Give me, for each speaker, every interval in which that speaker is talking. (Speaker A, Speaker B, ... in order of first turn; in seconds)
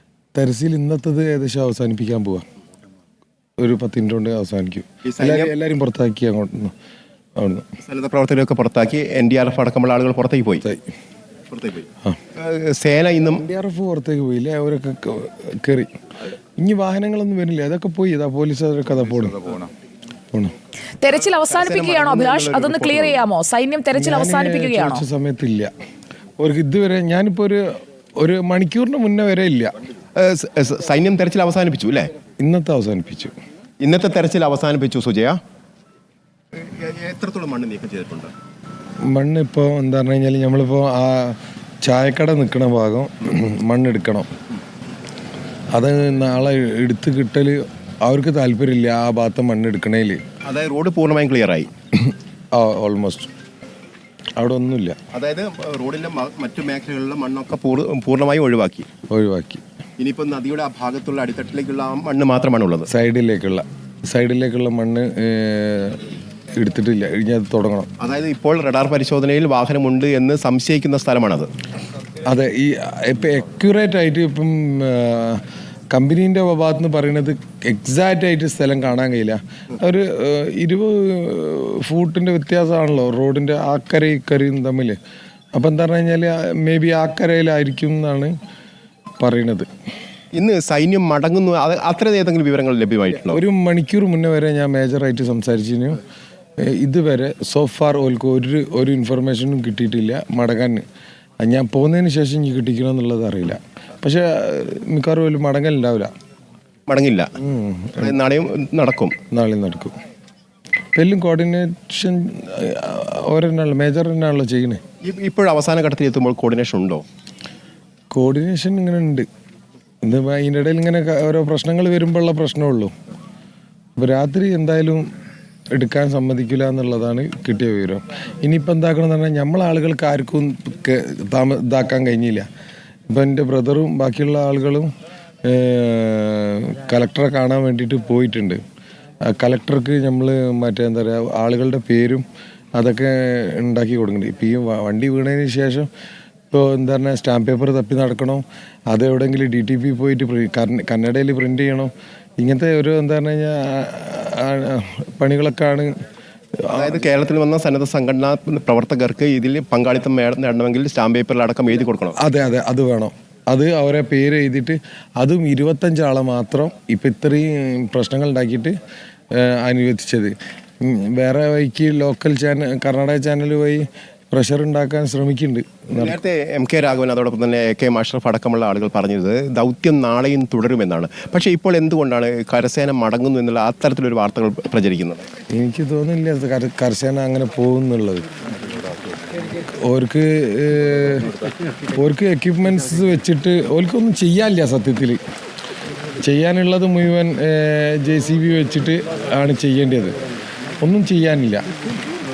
Speaker A: 0.3-2.4, 3.6-6.7, 7.4-7.7, 13.4-15.9, 16.6-19.7, 23.9-25.7, 26.4-27.6, 28.2-29.7, 32.4-33.3, 39.1-44.3, 45.8-50.2, 52.0-53.3, 54.4-55.0, 59.1-59.6, 62.9-67.9, 72.3-85.0, 85.5-88.3, 89.2-89.7, 93.3-96.0, 96.6-100.8, 101.4-106.1, 107.4-108.2, 109.3-110.0, 111.0-114.8, 118.1-119.3, 120.0-122.9, 124.0-125.1, 125.8-132.5, 133.1-134.9, 135.4-138.6, 139.3-145.9, 146.5-155.9, 156.6-157.0, 162.2-168.8, 169.3-176.2, 185.5-188.3, 189.9-191.3, 192.0-195.2, 196.2-200.2, 200.8-201.7
Speaker B: 5.0-5.5, 7.8-10.7, 11.5-13.4, 21.5-23.2, 30.2-32.1, 33.8-35.4, 36.5-38.3, 50.5-51.7, 55.1-58.9, 60.0-62.9, 68.0-71.5, 90.3-93.4, 106.9-107.3, 108.0-109.2, 115.0-117.0, 156.7-162.2, 176.0-185.2
Speaker C: 21.0-25.0